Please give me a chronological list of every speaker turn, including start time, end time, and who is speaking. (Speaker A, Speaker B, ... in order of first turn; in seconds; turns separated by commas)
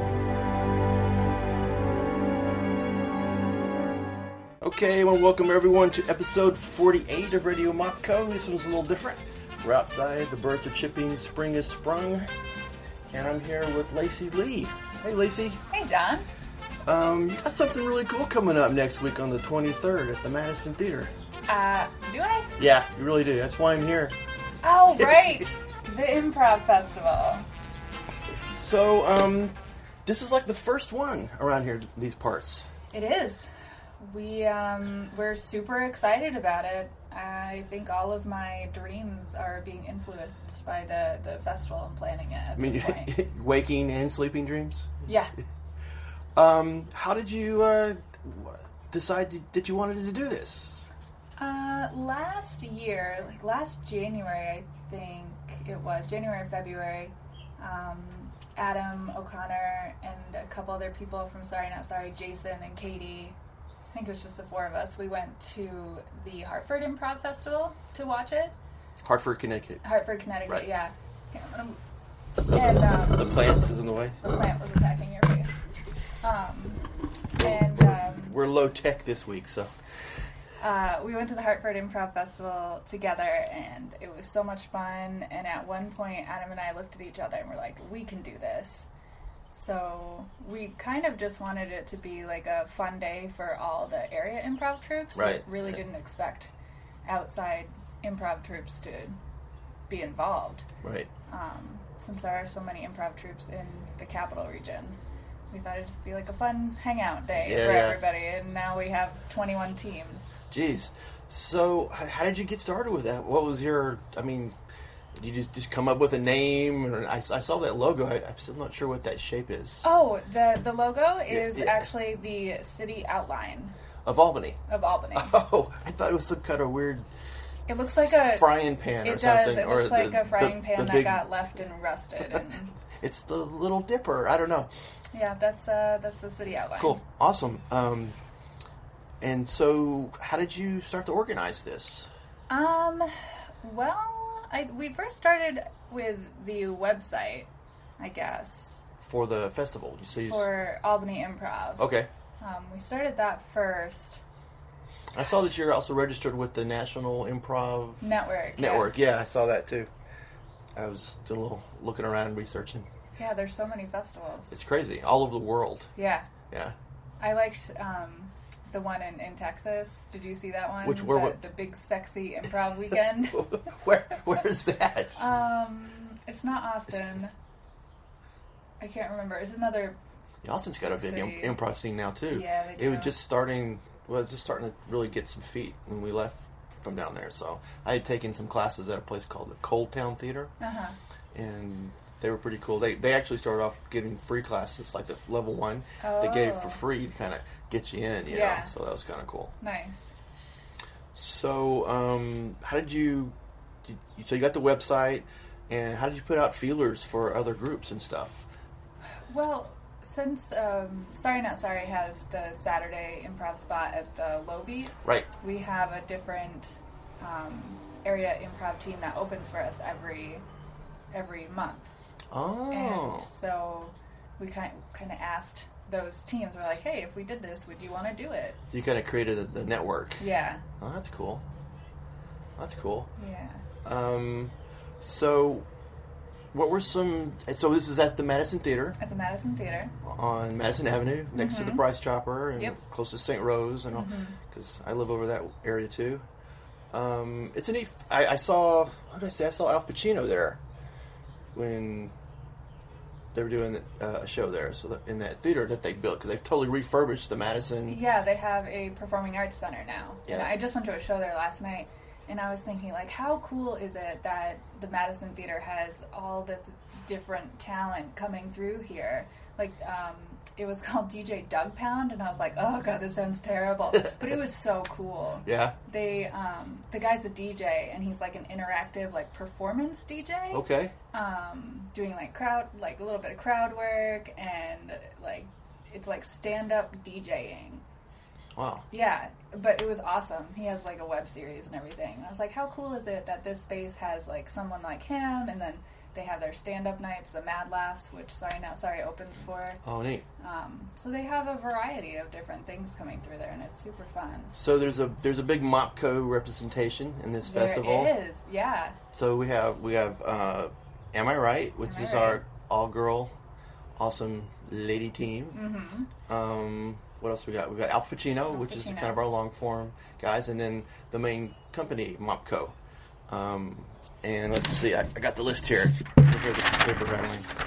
Speaker A: 4.6-12.3, Speaker A: 13.1-15.6, Speaker B: 15.7-16.2, Speaker A: 16.8-21.1, Speaker B: 21.5-22.5, Speaker A: 22.6-24.1, Speaker B: 24.6-27.4, Speaker A: 24.9-25.4, Speaker A: 28.5-32.7, Speaker B: 32.9-33.5, Speaker B: 34.0-43.1, Speaker A: 42.5-44.9, Speaker B: 45.0-45.3, Speaker A: 46.4-50.9, Speaker B: 51.4-63.4, Speaker B: 63.9-68.5, Speaker A: 69.0-69.9, Speaker B: 69.8-71.8, Speaker B: 72.5-73.5, Speaker A: 73.0-74.3, Speaker B: 74.2-75.5, Speaker B: 76.2-76.8, Speaker B: 77.3-78.3, Speaker A: 77.4-79.7, Speaker B: 80.6-88.9, Speaker B: 89.5-96.5, Speaker A: 95.1-95.8, Speaker B: 97.0-99.2, Speaker B: 99.9-100.6, Speaker A: 100.8-101.1, Speaker B: 101.3-105.0, Speaker B: 105.5-110.3, Speaker A: 107.3-108.0, Speaker A: 110.5-114.5, Speaker A: 115.2-119.8, Speaker B: 119.8-123.7, Speaker A: 121.3-121.9, Speaker A: 124.0-124.6, Speaker B: 124.7-125.3, Speaker A: 125.1-127.0, Speaker B: 127.7-132.7, Speaker A: 127.9-131.3, Speaker A: 133.0-134.7, Speaker B: 135.1-137.0, Speaker A: 136.7-138.2, Speaker A: 139.2-142.1, Speaker B: 142.5-148.8, Speaker A: 149.0-150.5, Speaker B: 150.3-151.9, Speaker A: 151.8-152.1, Speaker B: 152.4-154.2, Speaker A: 155.1-159.9, Speaker B: 158.0-158.9, Speaker A: 160.8-162.9, Speaker B: 163.2-164.5, Speaker A: 164.5-165.9, Speaker B: 165.9-166.3, Speaker B: 167.2-173.5, Speaker A: 170.8-171.4, Speaker A: 173.0-175.2, Speaker B: 175.2-177.3, Speaker B: 178.8-180.0, Speaker A: 180.4-190.5, Speaker B: 180.9-181.6, Speaker B: 182.3-183.1, Speaker B: 190.6-191.0, Speaker A: 191.3-199.5, Speaker B: 196.0-196.8, Speaker B: 198.3-198.7, Speaker B: 199.6-200.1, Speaker A: 201.1-208.5, Speaker B: 209.3-220.4, Speaker B: 221.1-221.9, Speaker A: 222.3-223.3, Speaker B: 222.7-228.6, Speaker A: 228.7-231.4, Speaker B: 230.2-230.6, Speaker A: 232.6-233.1, Speaker B: 233.2-233.6, Speaker A: 233.8-235.7, Speaker A: 236.5-239.0, Speaker B: 239.0-239.9, Speaker A: 240.0-246.2, Speaker B: 241.3-241.8, Speaker B: 243.9-244.4, Speaker A: 246.9-250.6, Speaker A: 251.5-252.1, Speaker A: 253.3-258.0, Speaker B: 257.9-287.8, Speaker A: 275.4-275.8, Speaker A: 280.5-280.9, Speaker A: 288.6-288.9, Speaker B: 288.9-299.8, Speaker A: 299.8-300.2, Speaker B: 300.4-304.5, Speaker A: 304.5-308.2, Speaker B: 307.4-309.0, Speaker A: 309.1-313.3, Speaker B: 311.8-312.4, Speaker A: 314.0-315.6, Speaker B: 315.5-316.1, Speaker A: 316.3-322.7, Speaker B: 318.5-319.2, Speaker A: 323.3-327.5